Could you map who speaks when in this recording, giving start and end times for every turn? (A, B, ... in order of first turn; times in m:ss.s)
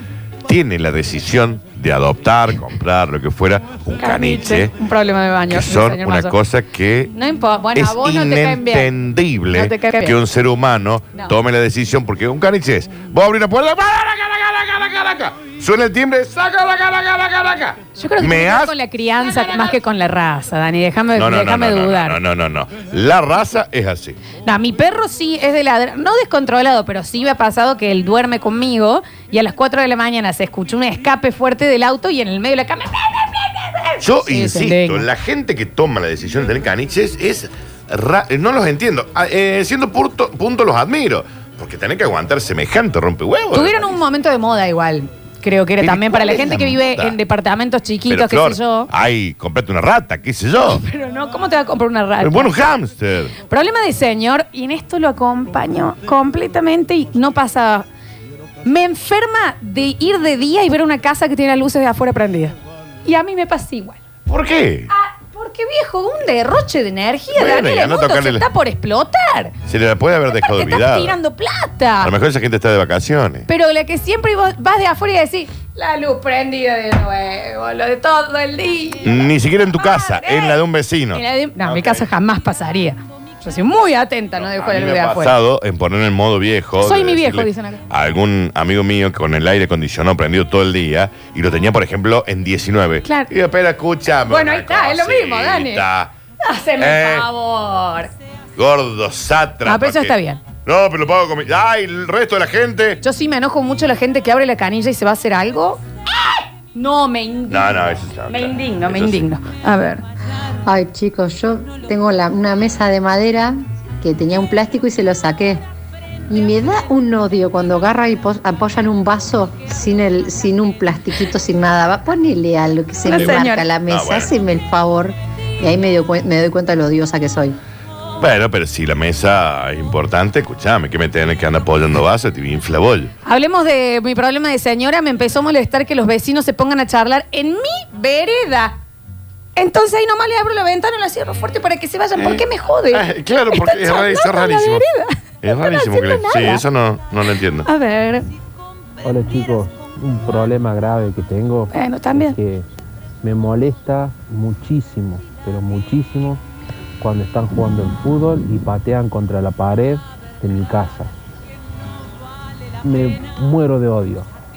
0:00.5-0:04.7 A
0:04.0-0:06.3 B
0:05.5-0:07.1 A
0:07.1-0:08.9 B
0:07.7-0:19.7 A
0:09.5-0:10.2 B
0:18.0-0:22.2 B
0:21.1-0:24.2 A
0:24.4-0:35.0 B
0:34.0-0:43.8 A
0:43.5-0:48.9 B
0:45.8-0:47.2 A
0:48.1-0:50.8 A
0:50.6-0:52.6 B
0:52.2-0:53.3 A
0:53.4-0:57.8 B
0:58.6-1:04.0 B
1:04.3-1:04.9 A
1:04.9-1:09.5 B
1:07.3-1:08.4 A
1:09.7-1:11.2 A
1:10.3-1:12.1 B
1:12.0-1:13.4 A
1:13.5-1:20.6 B
1:19.0-1:22.0 A
1:21.1-1:25.3 B
1:24.4-1:36.1 A
1:26.8-1:27.8 B
1:33.0-1:33.3 B
1:34.3-1:35.8 B
1:36.4-1:38.1 B
1:36.8-1:37.3 A
1:38.6-1:40.1 A
1:39.6-1:40.4 B
1:40.6-1:43.0 A
1:43.0-1:50.0 B
1:47.5-1:49.2 A
1:50.6-1:55.6 C
1:56.3-2:07.6 C
2:03.0-2:03.7 B
2:03.2-2:04.3 A
2:08.2-2:13.1 A
2:13.2-2:18.8 B
2:19.6-2:26.6 B
2:22.2-2:24.8 A
2:25.4-2:27.7 A
2:27.6-2:28.2 B
2:29.0-2:32.6 D
2:31.7-2:32.4 B
2:33.2-2:36.4 D
2:37.0-2:41.1 D
2:42.8-2:44.2 D